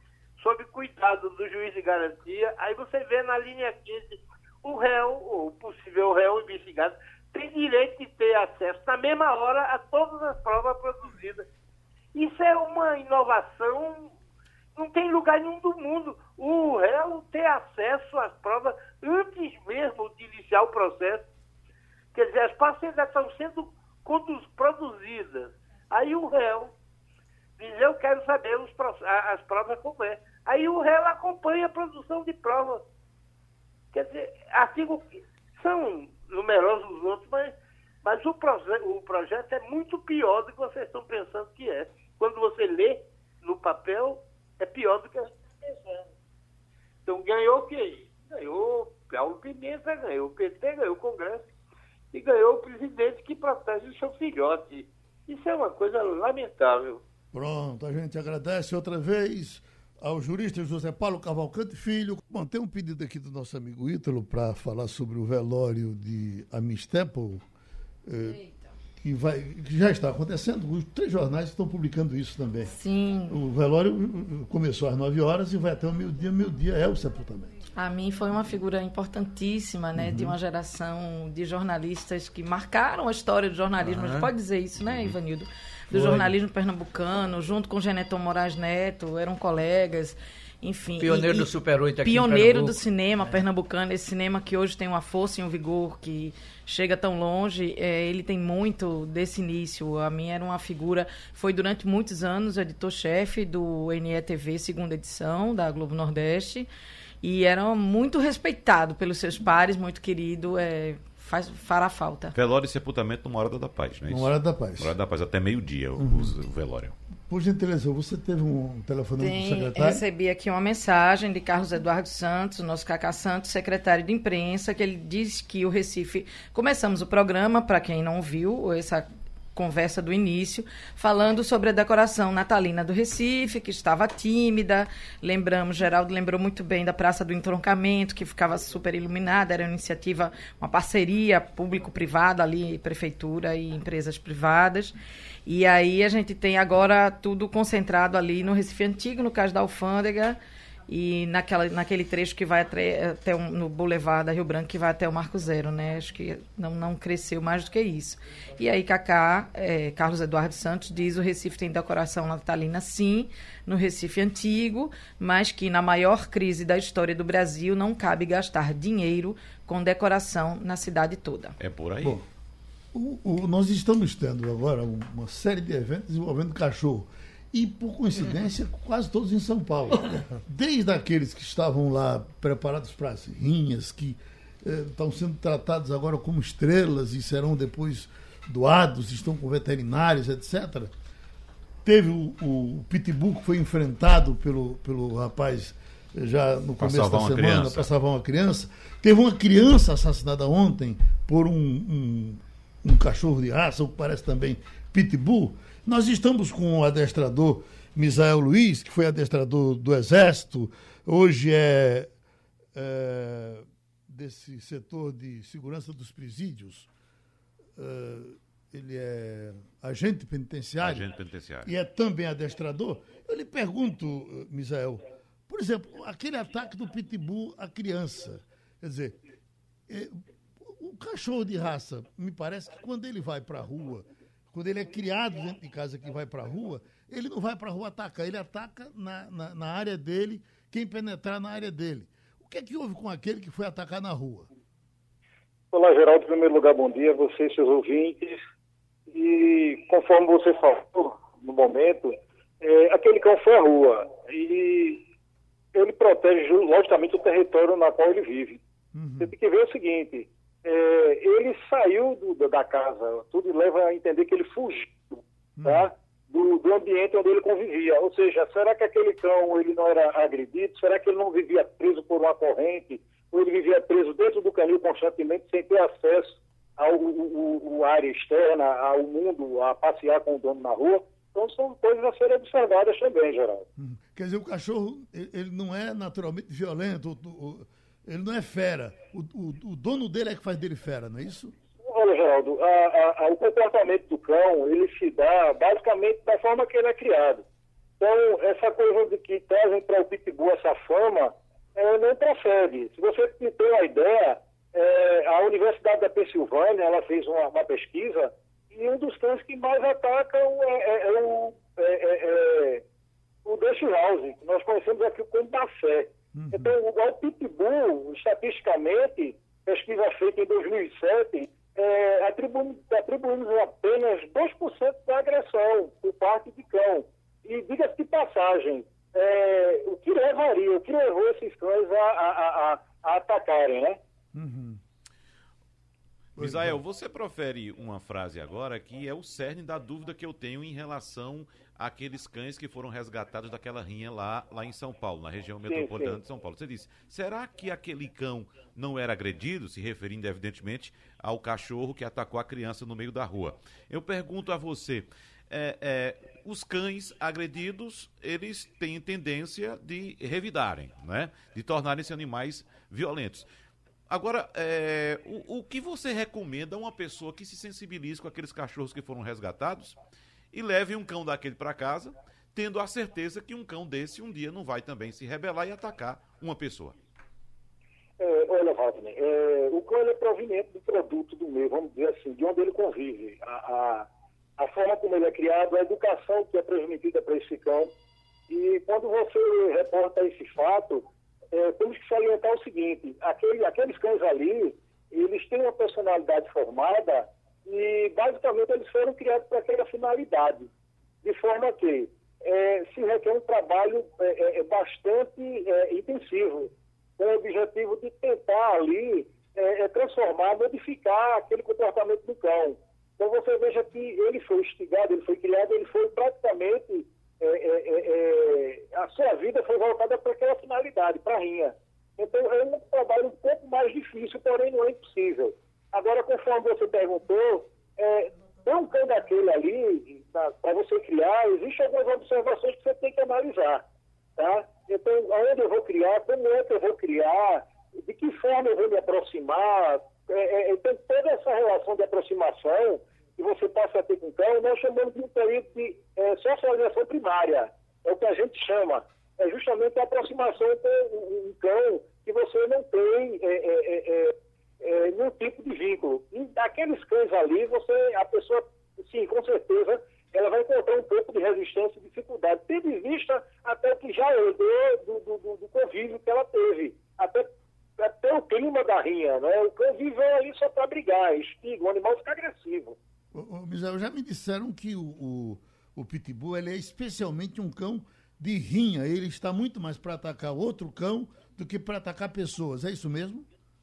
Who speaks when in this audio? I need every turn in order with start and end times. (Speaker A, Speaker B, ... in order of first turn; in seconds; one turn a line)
Speaker A: 0.4-11.4
Speaker A: 12.1-14.1
Speaker A: 14.8-21.3
Speaker A: 22.1-26.7
Speaker A: 27.6-32.8
Speaker A: 33.9-46.1
Speaker A: 47.0-51.5
Speaker A: 52.1-57.0
Speaker B: 57.3-67.4
Speaker B: 68.0-68.4
Speaker B: 69.0-72.7
Speaker C: 72.7-73.4
Speaker B: 73.3-77.5
Speaker C: 77.8-91.5
Speaker B: 80.0-80.3
Speaker D: 83.8-84.3
Speaker E: 84.8-85.1
Speaker B: 85.9-86.2
Speaker D: 86.0-86.2
Speaker D: 91.0-92.8
Speaker C: 92.0-106.7
Speaker C: 107.2-112.3
Speaker E: 112.3-116.9
Speaker B: 114.1-114.9
Speaker B: 116.0-116.3
Speaker B: 117.3-120.0
Speaker C: 119.2-171.6
Speaker E: 171.6-172.2
Speaker B: 172.0-172.2
Speaker B: 172.9-190.9
Speaker B: 191.8-212.1
Speaker E: 196.8-197.9
Speaker B: 212.7-216.9
Speaker B: 217.8-221.1
Speaker E: 220.8-221.7
Speaker B: 221.6-229.2
Speaker B: 229.9-244.5
Speaker F: 245.7-248.4
Speaker F: 249.1-255.0
Speaker F: 255.7-258.6
Speaker B: 258.9-259.3
Speaker F: 259.2-283.6
Speaker B: 265.6-265.9
Speaker B: 283.8-291.5
Speaker F: 291.8-297.4
Speaker F: 298.0-312.8
Speaker F: 313.4-334.0
Speaker B: 316.3-316.7
Speaker B: 334.3-334.8
Speaker B: 336.4-336.8
Speaker E: 336.4-363.5
Speaker F: 345.6-346.2
Speaker E: 364.1-370.0
Speaker E: 370.5-377.0
Speaker F: 378.2-387.9
Speaker F: 388.5-400.7
Speaker F: 401.2-433.8
Speaker F: 434.4-473.0
Speaker B: 473.3-483.5